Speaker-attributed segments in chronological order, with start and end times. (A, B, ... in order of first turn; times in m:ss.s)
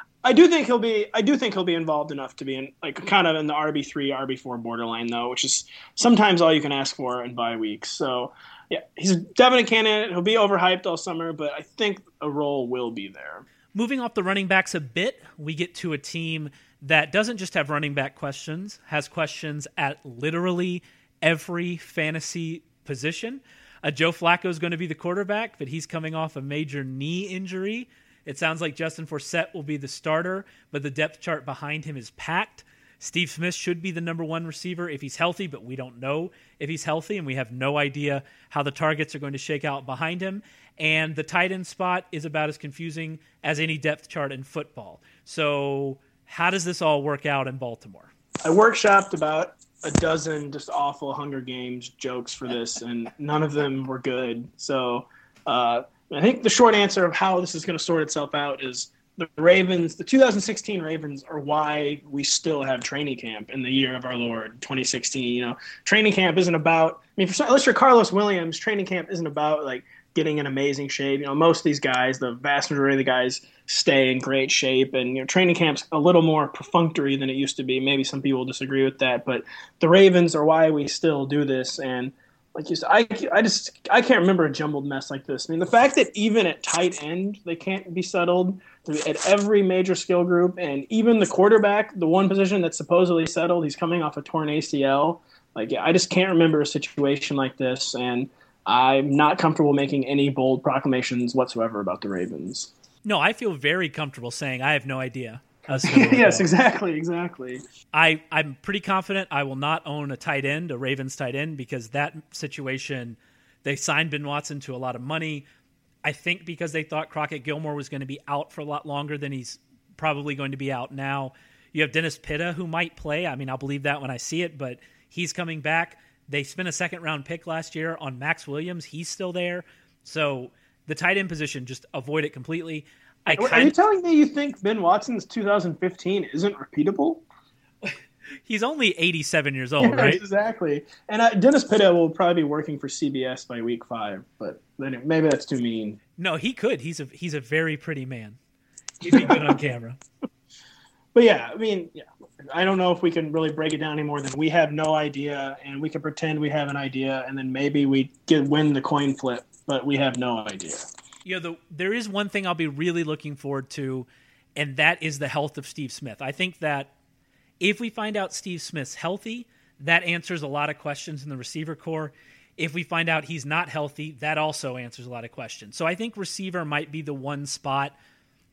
0:00.2-0:13.4 A
0:13.7-0:48.1 B
0:48.4-1:42.7 A
1:43.0-1:46.4 B
1:45.8-1:47.6 A
1:47.9-1:55.4 B
1:56.0-2:13.7 B
2:13.4-2:17.2 A
2:18.4-2:20.2 B
2:19.8-2:26.0 A
2:26.2-2:28.4 B
2:29.0-2:29.6 A
2:29.0-2:30.0 B
2:31.1-2:40.8 A
2:41.2-2:46.9 B
2:47.6-2:57.9 B